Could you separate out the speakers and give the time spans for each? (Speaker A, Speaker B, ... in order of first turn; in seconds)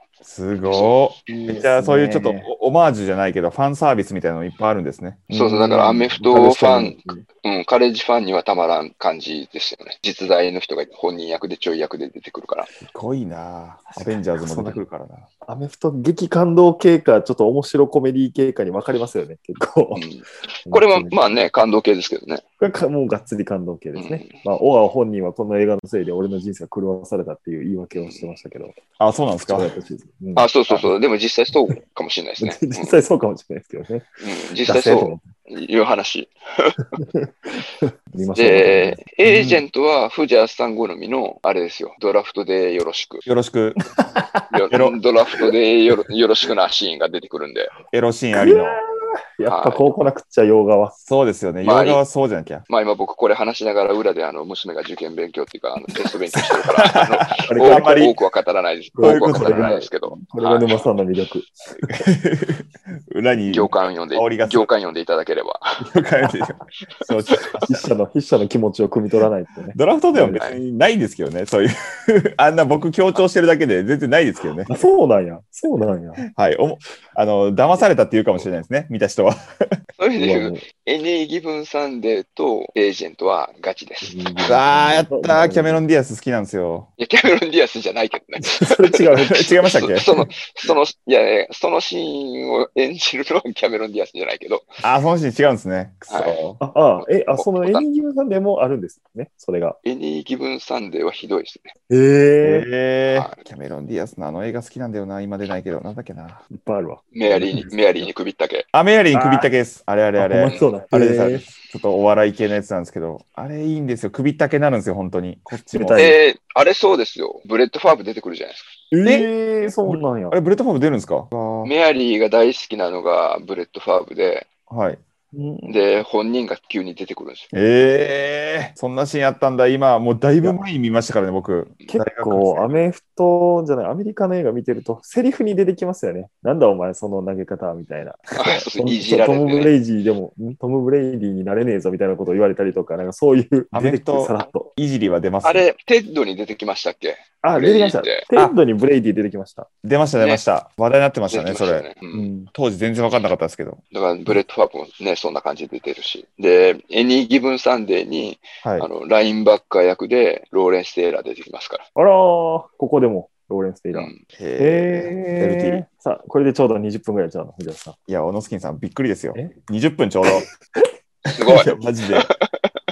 Speaker A: 0.2-6.2, 12.8-15.3, 29.0-29.7, 43.2-43.8, 44.7-45.0, 47.9-48.8, 51.0-52.6, 56.4-58.2, 59.0-60.1, 61.9-64.7, 65.8-67.6, 69.7-74.7, 76.3-79.4, 84.4-86.9, 89.2-90.1, 94.8-96.6, 102.4-106.4, 108.7-116.2, 119.0-121.7, 124.7-125.0, 127.5-132.8, 143.7-145.7, 149.8-151.9, 152.5-153.8, 158.6-158.9, 164.3-165.8, 168.1-170.5, 171.4-172.3
Speaker B: 0.7-0.9, 5.3-12.7, 19.9-22.4, 23.9-24.4, 28.0-28.3, 30.4-33.0, 34.2-36.8, 38.3-43.2, 44.5-47.7, 49.5-49.9, 51.6-52.0, 52.7-60.7, 63.5-65.6, 70.3-70.6, 80.0-84.5, 87.0-94.7, 96.1-96.4, 97.0-97.9, 99.8-101.7, 103.1-103.4, 107.1-108.7, 110.5-110.7, 116.0-118.7, 121.6-124.5, 125.7-127.5, 138.4-139.7, 145.4-148.2, 150.2-150.4, 151.3-152.3, 153.9-161.8, 163.9-164.2, 171.4-172.7
Speaker C: 1.3-2.5, 5.3-7.2, 13.9-14.8, 15.4-20.1, 20.7-21.2, 22.6-28.8, 29.5-30.9, 32.4-34.1, 34.6-35.3, 37.0-39.5, 48.4-48.9, 49.4-51.0, 57.4-58.0, 59.0-62.0, 67.6-70.4, 74.7-76.3, 80.2-80.6, 84.0-85.8, 88.4-89.4, 96.6-99.8, 101.9-102.7, 106.5-108.1, 109.1-109.5, 110.2-111.5, 115.5-116.2, 118.9-120.4, 125.3-125.9, 131.9-144.7, 147.4-149.7, 152.1-152.5, 162.0-168.0